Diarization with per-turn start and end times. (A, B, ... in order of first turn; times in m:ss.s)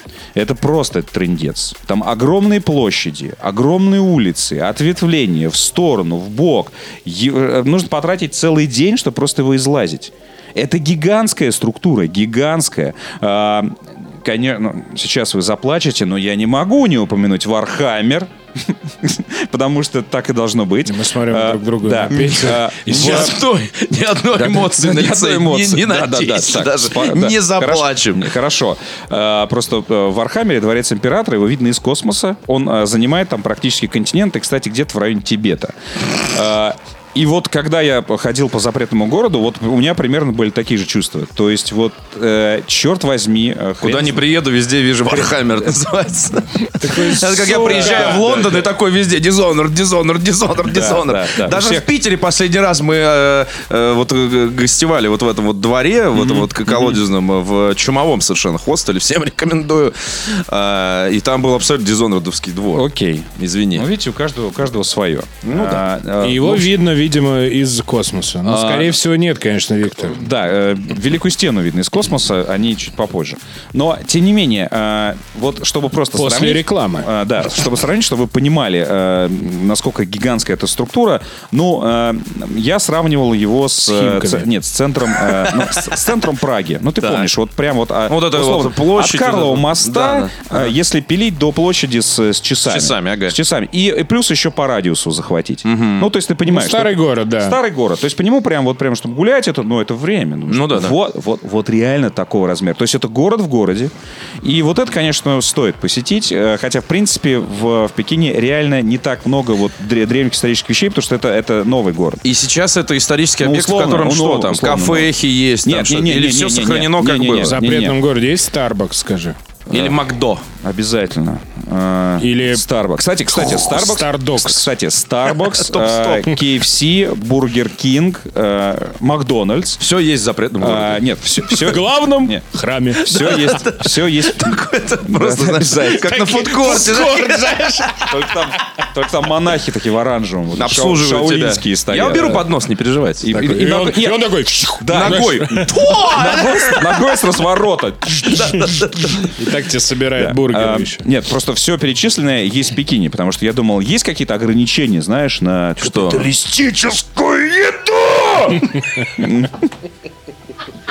0:00.3-0:23.4 A
0:20.8-0:23.3 B
0:22.8-0:28.3 C
0:24.3-0:44.2 A
0:43.8-1:03.9 C
0:46.8-0:48.5 B
0:47.3-0:48.6 A
0:50.6-0:51.9 A
0:56.2-0:56.9 A
1:02.7-1:06.7 A
1:05.4-1:05.8 C
1:06.2-1:10.2 B
1:08.4-1:08.9 A
1:10.1-1:52.2 A
1:16.1-1:17.1 B
1:23.8-1:24.5 B
1:27.0-1:27.3 C
1:28.1-1:30.7 C
1:32.6-1:33.4 C
1:35.6-1:36.1 C
1:36.4-1:37.6 B
1:40.5-1:41.0 C
1:52.2-1:57.6 C
1:53.4-1:55.1 A
1:55.6-1:58.0 A
1:57.3-1:59.4 B
1:59.7-2:00.0 A
1:59.7-2:00.5 C
2:00.6-2:09.8 A
2:02.2-2:02.6 B
2:03.3-2:04.7 B
2:05.3-2:06.3 C
2:09.8-2:11.0 C
2:10.6-2:12.4 A
2:11.4-2:13.4 B
2:13.0-2:18.1 C
2:13.0-2:16.2 A
2:15.8-2:18.4 B
2:18.1-2:22.5 A
2:20.5-2:23.3 C
2:23.2-2:29.3 A
2:23.3-2:26.1 B
2:24.9-2:27.0 C
2:28.2-2:29.3 C
2:29.2-2:31.0 B
2:30.1-2:39.6 A
2:35.8-2:36.3 C